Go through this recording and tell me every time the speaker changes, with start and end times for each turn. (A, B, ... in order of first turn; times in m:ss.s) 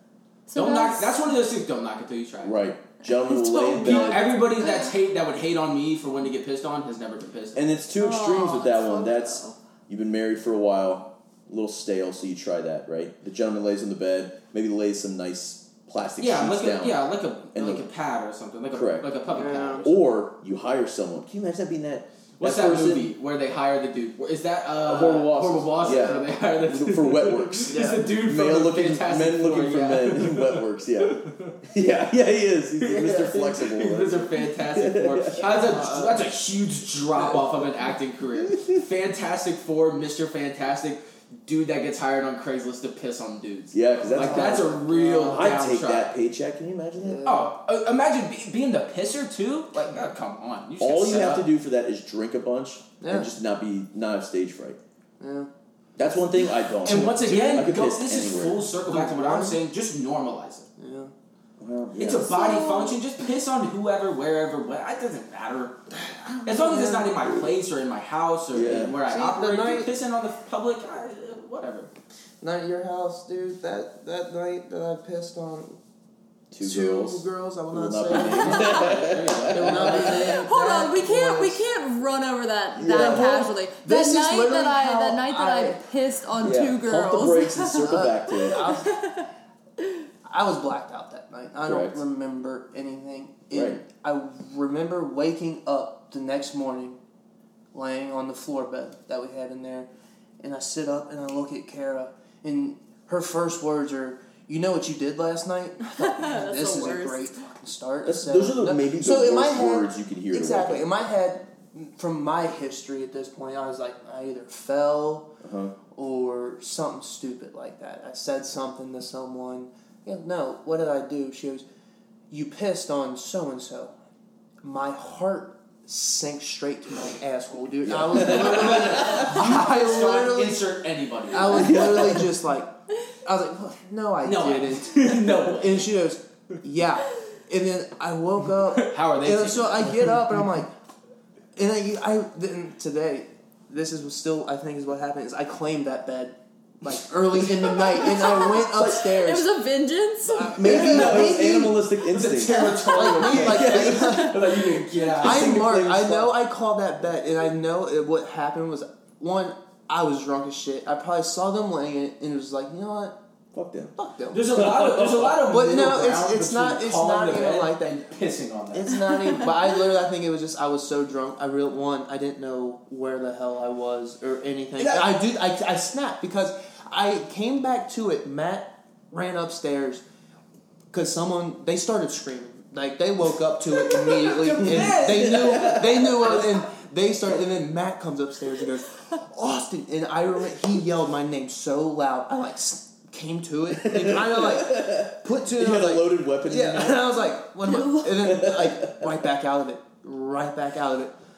0:00.5-0:01.3 A
0:00.6-0:02.6 B
0:02.4-0:04.3 C
0:03.0-0:04.9 A
0:03.8-0:07.6 B
0:07.5-0:17.9 C
0:08.0-0:09.6 A
0:16.2-0:20.0 B
0:18.7-0:19.1 C
0:19.3-0:19.9 D
0:19.8-0:23.1 C
0:22.4-0:31.5 B
0:24.8-0:35.5 C
0:25.8-0:26.2 D
0:27.7-0:28.1 D
0:32.8-0:46.1 B
0:35.4-0:36.3 D
0:37.2-0:37.9 D
0:43.7-0:47.3 C
0:44.0-0:45.6 D
0:47.0-0:47.5 D
0:47.2-0:51.4 B
0:49.7-0:50.0 D
0:50.8-0:54.8 C
0:53.0-0:53.3 D
0:55.2-0:55.5 D
0:56.0-0:58.7 C
0:56.8-1:00.7 B
0:57.3-0:57.6 D
0:58.8-0:59.6 D
1:00.8-1:01.1 D
1:01.6-1:02.5 C
1:02.0-1:05.8 B
1:02.3-1:03.0 A
1:05.9-1:07.1 D
1:06.4-1:11.9 B
1:08.5-1:09.0 C
1:09.1-1:09.9 D
1:12.4-1:15.8 D
1:16.5-1:20.3 C
1:16.6-1:21.6 D
1:18.5-1:20.2 B
1:20.2-1:29.3 A
1:22.8-1:23.3 C
1:22.9-1:25.8 D
1:26.4-1:28.7 C
1:27.8-1:28.9 D
1:30.2-1:37.0 D
1:31.6-1:32.0 C
1:33.5-1:33.8 C
1:37.7-1:39.9 D
1:40.4-1:55.3 D
1:45.9-1:47.4 A
1:48.0-1:50.9 C
1:55.4-1:55.7 C
1:55.9-2:01.6 D
2:02.3-2:03.9 D
2:04.6-2:10.6 D
2:07.8-2:09.4 C
2:08.1-2:12.1 B
2:11.3-2:12.7 D
2:11.5-2:12.3 C
2:13.2-2:20.7 D
2:14.2-2:15.9 B
2:18.8-2:20.5 B
2:21.6-2:29.5 D
2:28.0-2:30.8 A
2:28.0-2:29.0 C
2:30.2-2:43.1 D
2:30.5-2:34.0 C
2:30.6-2:31.4 B
2:32.1-2:35.7 B
2:32.4-2:34.8 A
2:35.2-2:36.4 C
2:43.5-2:43.9 C
2:44.0-2:44.4 D
2:44.3-2:49.1 B
2:44.5-2:45.4 C
2:45.5-2:47.9 D
2:48.7-3:00.0 D
2:54.8-2:55.1 B
3:00.9-3:21.1 D
3:04.0-3:06.5 B
3:04.6-3:06.4 C
3:13.7-3:17.2 C
3:18.1-3:19.2 C